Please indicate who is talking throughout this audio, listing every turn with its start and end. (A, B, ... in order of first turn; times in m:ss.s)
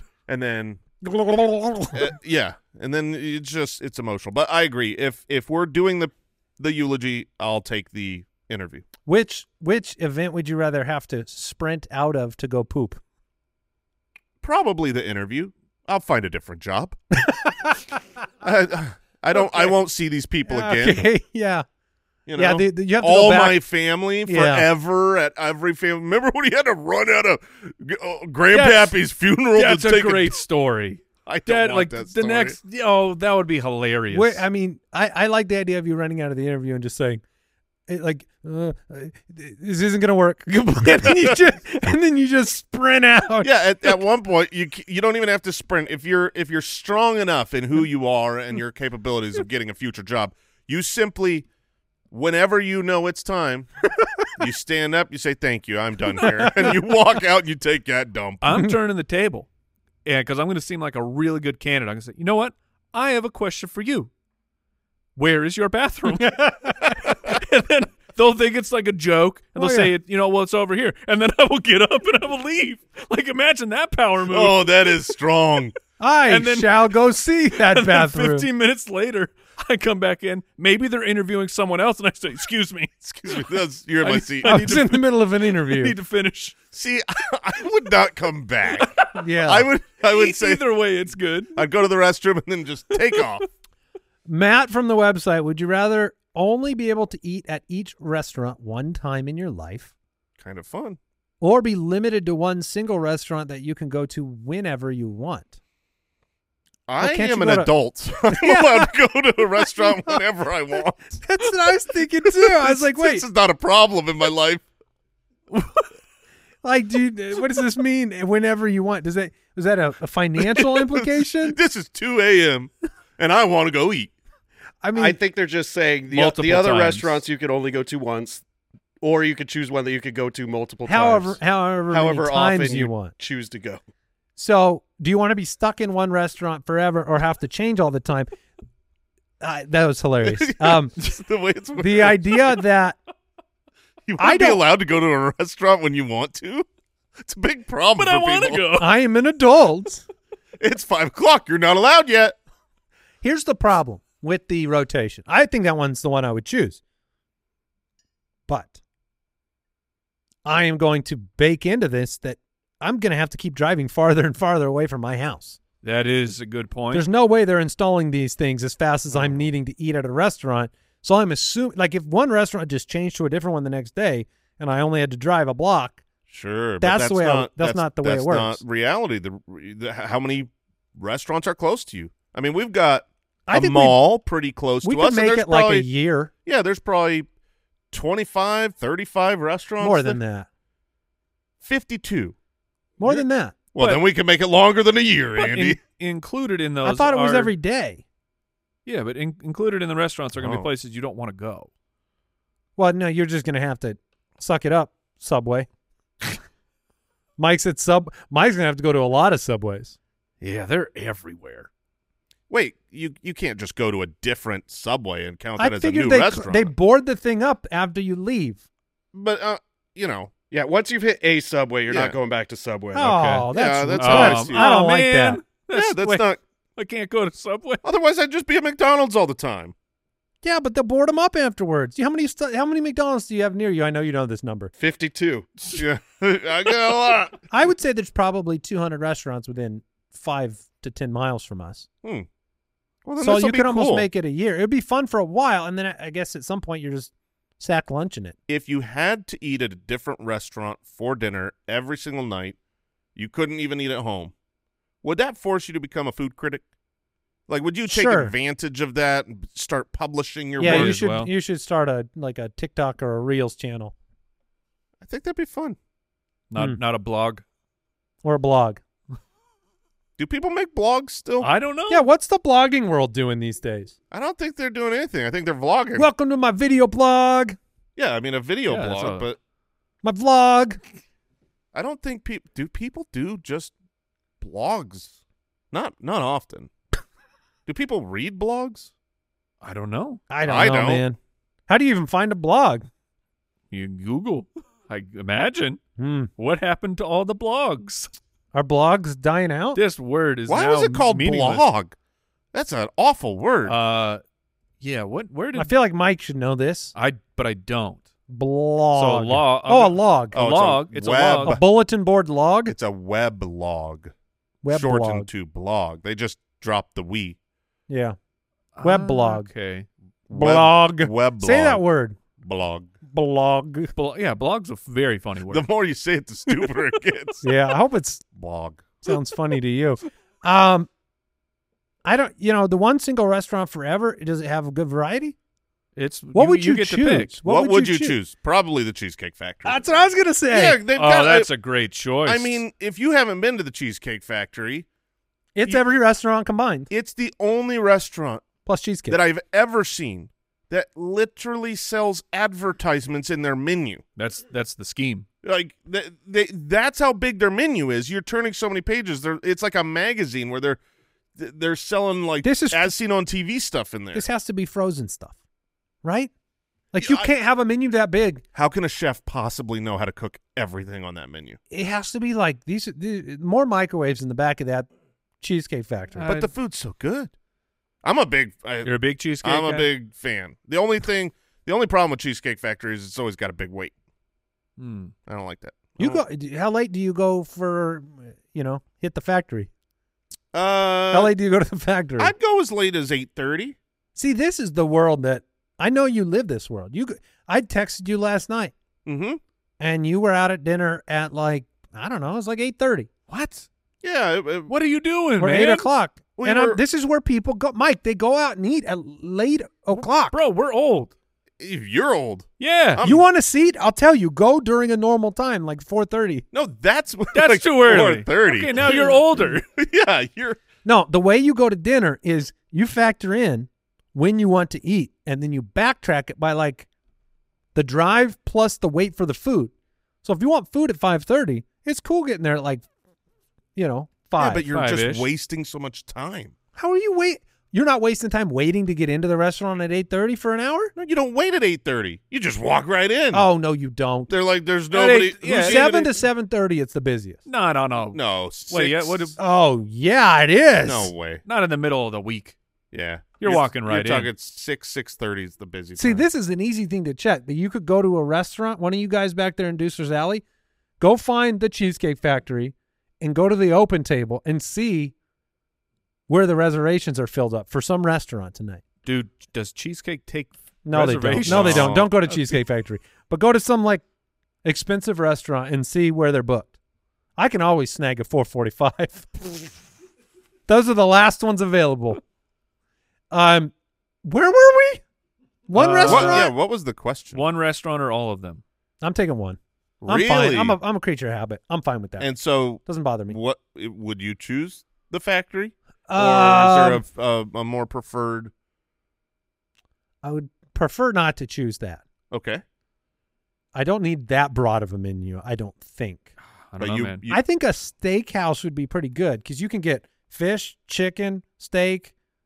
0:00.3-0:00.8 A
0:01.0-0:02.0 B
0:01.9-0:08.8 A
0:09.1-0:13.0 B
0:14.4-0:17.0 A
0:17.2-0:17.8 B
0:18.4-0:21.0 A
0:20.5-0:21.6 B
0:22.3-0:30.4 A
0:22.4-0:23.6 B
0:24.3-0:24.7 B
0:28.6-0:28.8 B
0:29.6-0:34.4 C
0:31.2-0:32.6 A
0:34.1-0:37.2 B
0:37.9-0:44.0 B
0:41.0-0:41.3 A
0:43.4-0:51.5 A
0:52.1-0:53.7 A
0:54.4-0:58.6 A
0:56.2-0:56.7 B
0:58.4-0:59.5 C
1:00.1-1:04.1 C
1:05.2-1:14.9 C
1:06.2-1:06.7 B
1:09.6-1:09.9 B
1:14.3-1:15.8 A
1:16.0-1:18.5 B
1:16.3-1:16.9 C
1:17.5-1:23.0 C
1:23.0-1:24.9 A
1:24.0-1:26.6 C
1:24.4-1:26.0 B
1:26.7-1:30.6 A
1:28.8-1:29.1 C
1:29.2-1:29.7 B
1:30.1-1:31.6 C
1:31.6-1:33.5 A
1:33.0-1:33.3 C
1:34.3-1:39.9 B
1:40.4-1:41.0 A
1:41.4-1:45.6 B
1:46.9-1:51.2 A
1:47.0-1:47.7 B
1:48.2-1:48.9 B
1:49.8-1:50.2 B
1:51.2-1:53.2 B
1:52.2-1:54.6 A
1:56.6-2:01.6 B
2:00.5-2:04.1 A
2:04.8-2:05.2 B
2:05.0-2:08.4 D
2:06.1-2:07.2 C
2:09.0-2:13.8 D
2:10.9-2:13.1 B
2:14.4-2:18.3 B
2:19.4-2:20.9 B
2:20.2-2:22.6 A
2:21.8-2:23.0 B
2:24.1-2:26.7 A
2:24.2-2:24.6 B
2:27.2-2:28.6 A
2:28.0-2:28.9 C
2:28.8-2:30.0 B
2:30.6-2:32.4 A
2:33.2-2:36.8 B
2:38.5-2:38.8 B
2:40.4-2:45.6 B
2:45.8-2:47.1 C
2:46.9-2:56.0 B
2:49.1-2:49.4 A
2:56.3-3:05.9 A
2:56.8-2:58.6 B
3:03.5-3:04.0 B
3:04.8-3:06.3 B
3:06.4-3:07.3 A
3:07.9-3:10.2 A
3:09.8-3:10.5 B
3:11.6-3:12.4 A
3:13.0-3:13.6 B
3:13.7-3:15.8 A
3:13.8-3:14.0 C
3:15.4-3:17.5 C
3:16.8-3:18.0 B
3:18.9-3:21.7 C
3:20.4-3:20.7 A
3:22.8-3:25.7 B
3:27.4-3:30.0 B
3:30.4-3:31.7 C
3:32.5-3:36.7 A
3:35.6-3:38.6 B
3:39.1-3:40.3 A
3:40.5-3:43.1 D
3:41.9-3:42.2 A
3:43.0-3:45.4 B
3:43.0-3:43.5 C
3:43.5-3:44.7 A
3:44.0-3:47.8 C
3:45.7-3:46.4 A
3:47.8-3:49.7 A
3:50.4-3:54.7 B
3:54.8-3:55.5 D
3:55.7-3:57.4 A
3:57.5-4:01.9 B
4:03.0-4:04.1 A
4:03.2-4:08.4 B
4:08.5-4:12.6 A
4:13.2-4:14.3 A
4:15.0-4:16.6 A
4:17.5-4:21.0 A
4:17.9-4:18.3 B
4:20.6-4:24.0 B
4:20.6-4:21.3 C
4:25.0-4:25.8 A
4:26.5-4:27.4 C
4:28.2-4:28.8 B
4:30.2-4:31.5 A
4:31.4-4:32.1 C
4:31.9-4:33.9 B
4:34.1-4:36.1 A
4:36.0-4:37.6 B
4:38.0-4:39.4 A
4:38.7-4:39.3 C
4:40.0-4:40.8 B
4:41.7-4:43.7 A
4:44.4-4:45.2 A
4:45.7-4:46.7 A
4:47.7-4:48.9 A
4:49.6-4:50.2 C
4:50.3-4:52.9 B
4:50.4-4:51.1 A
4:53.7-4:55.8 C
4:56.0-4:56.3 B
4:56.4-4:58.1 C
4:58.5-4:59.8 B
4:59.8-5:01.6 C
5:00.5-5:02.0 A
5:02.5-5:03.8 A
5:03.7-5:04.2 C
5:04.8-5:05.7 C
5:05.6-5:06.9 B
5:07.0-5:08.1 C
5:08.3-5:10.4 B
5:09.0-5:11.6 C
5:10.3-5:11.6 A
5:11.4-5:12.8 B
5:12.7-5:14.1 A
5:14.6-5:15.3 B
5:14.7-5:17.4 A
5:17.9-5:18.2 B
5:18.8-5:19.9 C
5:18.8-5:19.5 B
5:20.3-5:21.8 A
5:20.3-5:22.2 B
5:22.4-5:22.9 A
5:23.1-5:23.9 B
5:24.0-5:25.7 C
5:25.5-5:27.4 A
5:27.4-5:28.2 B
5:28.4-5:29.0 A
5:29.0-5:30.9 B
5:32.0-5:35.4 B
5:36.0-5:37.4 C
5:36.3-5:38.2 B
5:37.4-5:39.8 A
5:39.6-5:40.8 B
5:40.5-5:41.5 A
5:40.9-5:42.6 C
5:42.2-5:44.9 A
5:45.6-5:46.9 B
5:46.9-5:48.4 A
5:48.7-5:49.2 B
5:49.1-5:54.0 A
5:54.2-5:55.3 C
5:55.4-6:00.8 A
6:01.4-6:04.3 A
6:02.4-6:02.9 B
6:04.1-6:05.4 B
6:06.0-6:06.3 B
6:06.9-6:08.4 B
6:07.0-6:07.3 A
6:08.5-6:11.6 A
6:11.7-6:14.9 B
6:15.4-6:16.3 B
6:16.2-6:16.5 C
6:16.2-6:17.3 A
6:18.0-6:23.9 A
6:18.8-6:19.9 C
6:24.8-6:25.1 C
6:25.3-6:26.2 A
6:26.0-6:29.7 B
6:30.5-6:31.4 A
6:31.1-6:32.3 B
6:32.2-6:33.8 A
6:34.2-6:38.7 B
6:39.0-6:39.4 A
6:39.8-6:43.1 B
6:43.3-6:43.7 C
6:44.0-6:44.7 A
6:44.7-6:45.9 C
6:45.4-6:50.4 B
6:46.4-6:46.8 A
6:50.0-6:51.1 C
6:51.6-6:53.2 A
6:52.6-6:53.0 C
6:53.0-6:56.4 B
6:56.5-7:00.6 A
6:57.3-6:59.7 C
6:58.9-6:59.2 B
7:00.8-7:06.9 B
7:07.8-7:09.7 B
7:10.2-7:12.8 B
7:13.8-7:14.7 B
7:14.4-7:16.5 A
7:14.7-7:15.3 C
7:16.8-7:20.9 B
7:21.0-7:23.5 A
7:23.3-7:24.3 B
7:24.3-7:26.1 A
7:24.9-7:26.1 C
7:25.5-7:27.4 B
7:27.5-7:29.4 C
7:28.1-7:29.4 A
7:29.4-7:31.1 B
7:30.8-7:31.4 A
7:31.5-7:32.6 C
7:32.9-7:36.3 A
7:33.4-7:34.3 C
7:36.0-7:40.4 B
7:41.0-7:45.1 B
7:46.3-7:48.8 B
7:49.0-7:52.5 C
7:50.9-7:54.0 B
7:51.4-7:52.1 A
7:54.6-7:56.7 B
7:57.4-7:59.7 B
8:00.7-8:02.2 B
8:03.3-8:03.7 B
8:04.2-8:05.0 B
8:05.7-8:06.5 B
8:05.7-8:06.5 C
8:06.0-8:07.4 A
8:07.3-8:08.6 C
8:09.0-8:12.3 B
8:10.0-8:10.8 A
8:12.2-8:18.5 A
8:12.8-8:13.4 B
8:16.1-8:17.0 B
8:20.2-8:22.0 B
8:22.3-8:22.6 A
8:23.7-8:26.3 B
8:26.7-8:27.2 C
8:26.8-8:27.4 A
8:27.3-8:32.1 B